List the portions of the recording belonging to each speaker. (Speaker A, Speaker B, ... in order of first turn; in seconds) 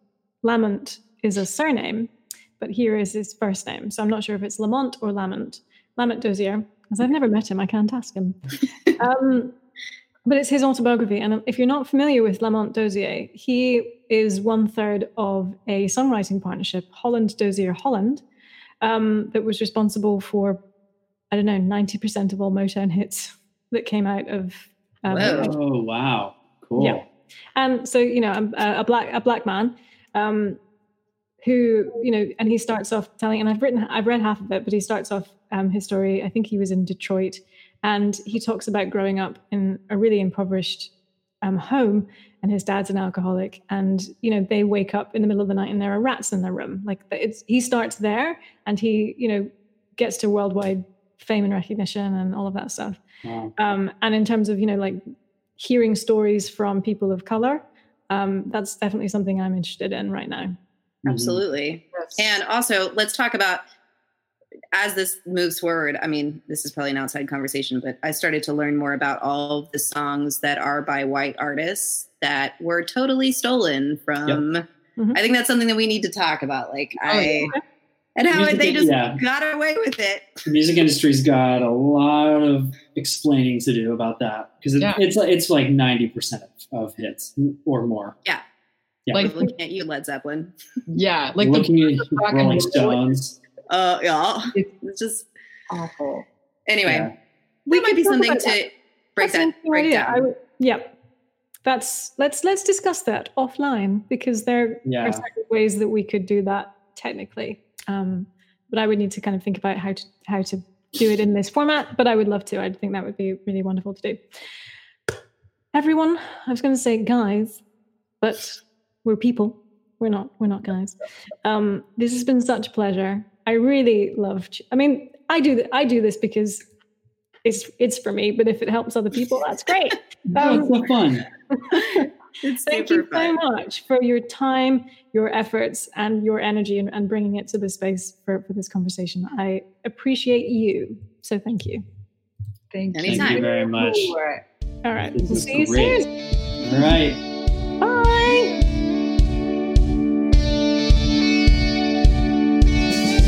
Speaker A: 0.4-9.6, 10.3-18.2, 18.8-20.6, 21.3-25.6, 26.8-27.0, 27.6-30.6, 31.4-40.9, 41.4-53.0, 53.6-55.0, 55.6-60.6, 97.7-98.6, 99.2-101.0, 101.6-114.2, 115.7-117.6, 118.2-126.6, 127.4-130.9, 131.5-141.8, 144.8-146.1, 147.8-148.6
Speaker B: 25.1-25.6, 61.1-63.6, 64.7-77.5, 78.2-80.5, 89.1-90.5, 93.7-95.3, 96.7-97.1, 97.7-100.2, 131.8-133.4, 142.9-143.5
Speaker C: 25.1-27.1, 53.2-53.5, 61.0-61.4, 78.3-79.2, 80.5-88.2, 91.4-93.4, 96.8-97.1, 104.8-105.2, 130.3-131.3, 143.1-144.2, 145.1-146.1, 146.6-147.2
Speaker D: 77.0-77.5, 89.1-89.5, 90.9-93.0, 95.7-96.3, 142.7-144.4